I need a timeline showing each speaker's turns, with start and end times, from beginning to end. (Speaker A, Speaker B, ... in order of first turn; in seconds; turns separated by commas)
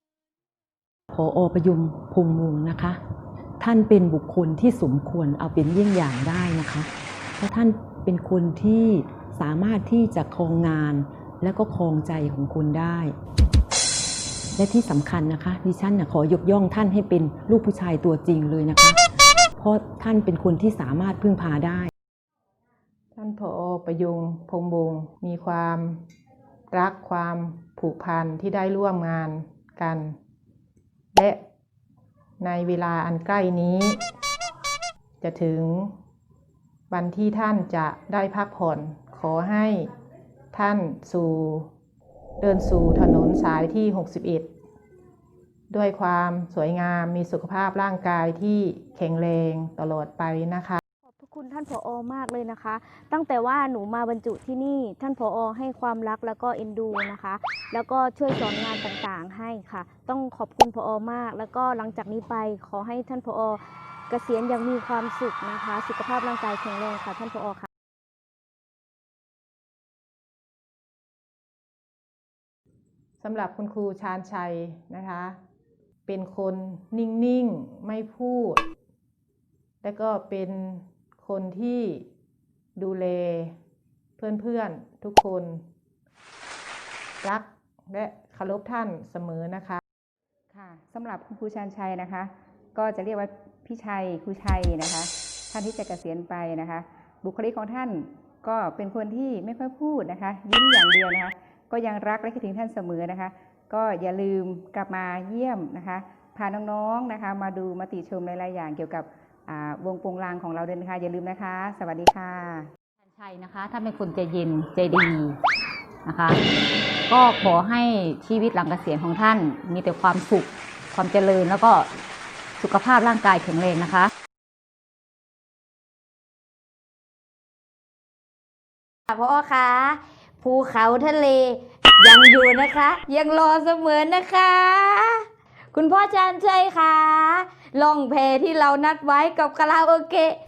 Speaker A: 1.1-3.0, Speaker A: 3.6-13.1, Speaker A: 14.6-19.0, Speaker A: 19.6-21.9, Speaker B: 23.1-26.0, Speaker B: 26.7-30.1, Speaker B: 31.1-31.4, Speaker B: 32.4-34.0, Speaker B: 35.2-35.9, Speaker B: 36.9-39.9, Speaker B: 40.5-41.7, Speaker B: 42.4-44.5, Speaker B: 45.7-50.8, Speaker C: 51.0-67.7, Speaker B: 73.2-75.4, Speaker B: 76.1-78.6, Speaker B: 79.8-82.1, Speaker B: 82.8-83.5, Speaker B: 84.2-85.6, Speaker B: 87.2-89.8, Speaker D: 90.5-112.7, Speaker E: 113.0-115.4, Speaker E: 116.0-116.4, Speaker E: 117.1-121.9, Speaker E: 122.6-124.1, Speaker F: 129.1-135.1, Speaker F: 135.8-140.3